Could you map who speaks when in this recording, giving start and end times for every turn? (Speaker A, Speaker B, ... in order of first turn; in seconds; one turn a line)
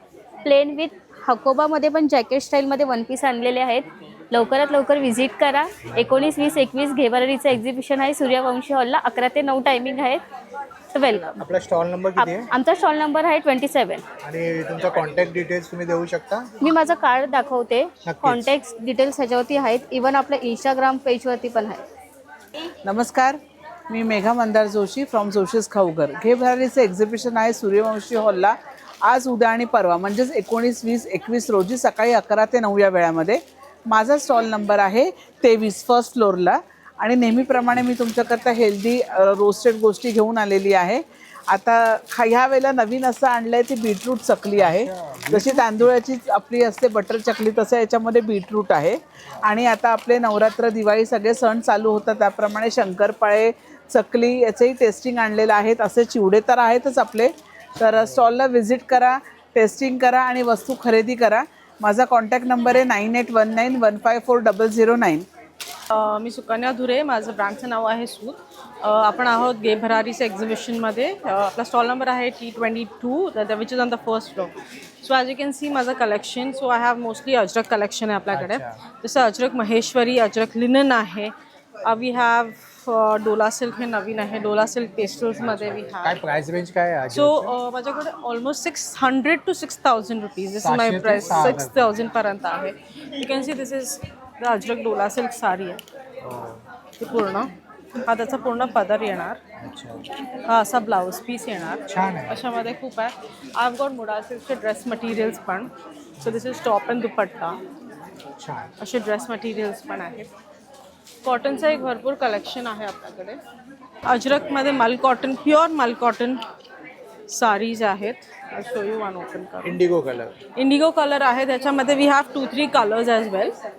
Speaker A: 0.4-10.2
Speaker A: 10.9-11.4
Speaker B: 11.4-12.5
Speaker A: 12.2-14.0
Speaker B: 14.2-16.5
Speaker A: 16.6-21.8
Speaker B: 18.0-18.5
Speaker C: 22.8-65.2
Speaker B: 44.5-45.9
Speaker B: 58.0-58.3
Speaker D: 65.9-86.2
Speaker B: 78.3-78.8
Speaker B: 85.4-87.5
Speaker D: 87.1-95.8
Speaker B: 90.6-91.9
Speaker B: 96.2-96.6
Speaker D: 97.0-97.5
Speaker D: 98.0-99.4
Speaker B: 99.6-100.0
Speaker D: 100.5-105.7
Speaker B: 101.9-102.4
Speaker B: 106.2-106.5
Speaker D: 106.2-107.6
Speaker B: 108.4-108.7
Speaker D: 108.8-110.3
Speaker D: 111.2-113.4
Speaker D: 114.0-116.4
Speaker D: 117.3-119.8
Speaker B: 119.6-120.4
Speaker D: 120.6-123.5